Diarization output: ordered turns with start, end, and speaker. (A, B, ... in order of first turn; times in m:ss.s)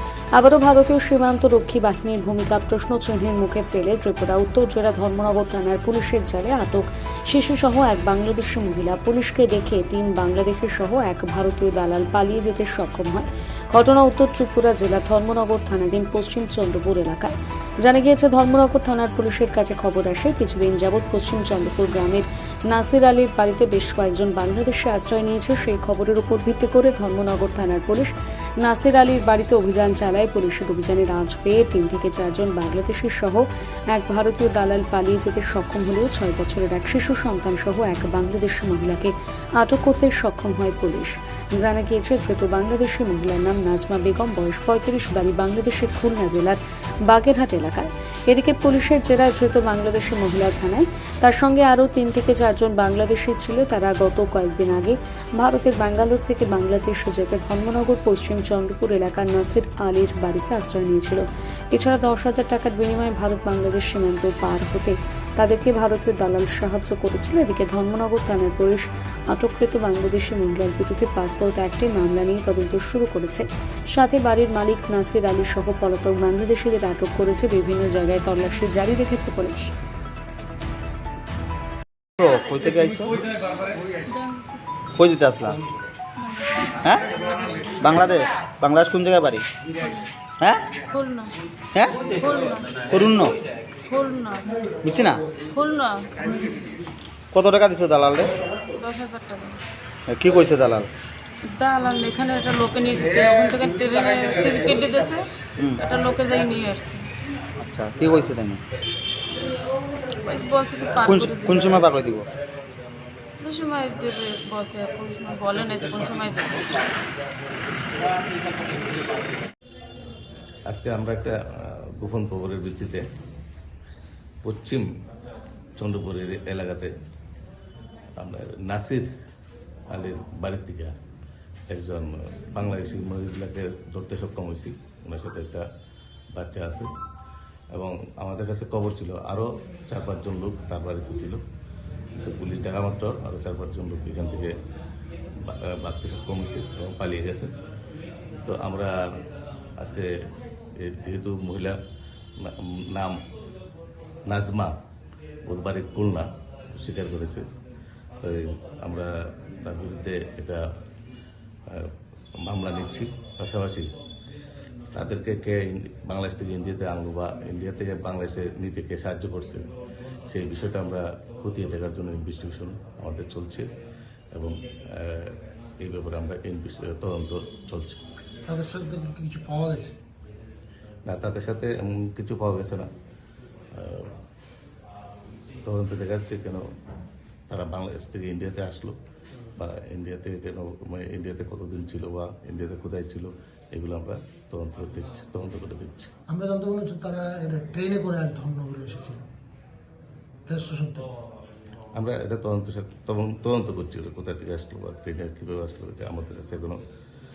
0:00.4-1:19.7 A
1:22.2-1:23.2 B
1:24.1-1:24.4 C
1:25.0-1:25.6 B
1:26.3-1:27.8 C
1:27.8-1:29.4 B
1:29.8-1:30.0 C
1:30.9-1:31.3 C
1:32.0-1:32.9 C
1:32.9-1:33.3 B
1:33.8-1:34.6 C
1:34.8-1:35.2 B
1:35.5-1:36.4 C
1:37.3-1:38.3 B
1:38.7-1:39.6 C
1:40.1-1:40.9 B
1:41.4-1:47.1 C
1:47.6-1:48.6 B
1:50.2-1:51.7 C
1:51.1-1:52.2 B
1:53.4-1:56.8 C
2:00.7-2:03.0 D
2:04.4-2:04.8 D
2:05.8-2:06.9 D
2:08.2-2:09.1 D
2:09.9-2:10.9 D
2:11.7-2:15.6 D
2:16.3-2:16.9 D
2:17.7-2:21.4 D
2:22.2-2:24.5 D
2:25.4-2:27.5 D
2:28.4-2:28.9 D
2:29.8-2:30.1 D
2:30.8-2:31.8 D
2:32.4-2:33.2 D
2:34.3-2:34.7 D
2:35.4-2:36.3 D
2:36.8-2:37.4 D
2:38.2-2:39.1 D
2:39.6-2:40.6 D
2:42.4-2:43.9 D
2:44.9-2:49.6 D
2:50.3-2:53.7 D
2:54.4-2:58.0 D
2:58.4-2:59.9 E
3:01.1-3:02.8 D
3:03.7-3:04.1 D
3:05.6-3:06.6 D
3:07.5-3:08.9 D
3:09.6-3:16.1 D
3:16.3-3:19.2 E
3:20.5-3:21.1 E
3:22.0-3:26.8 D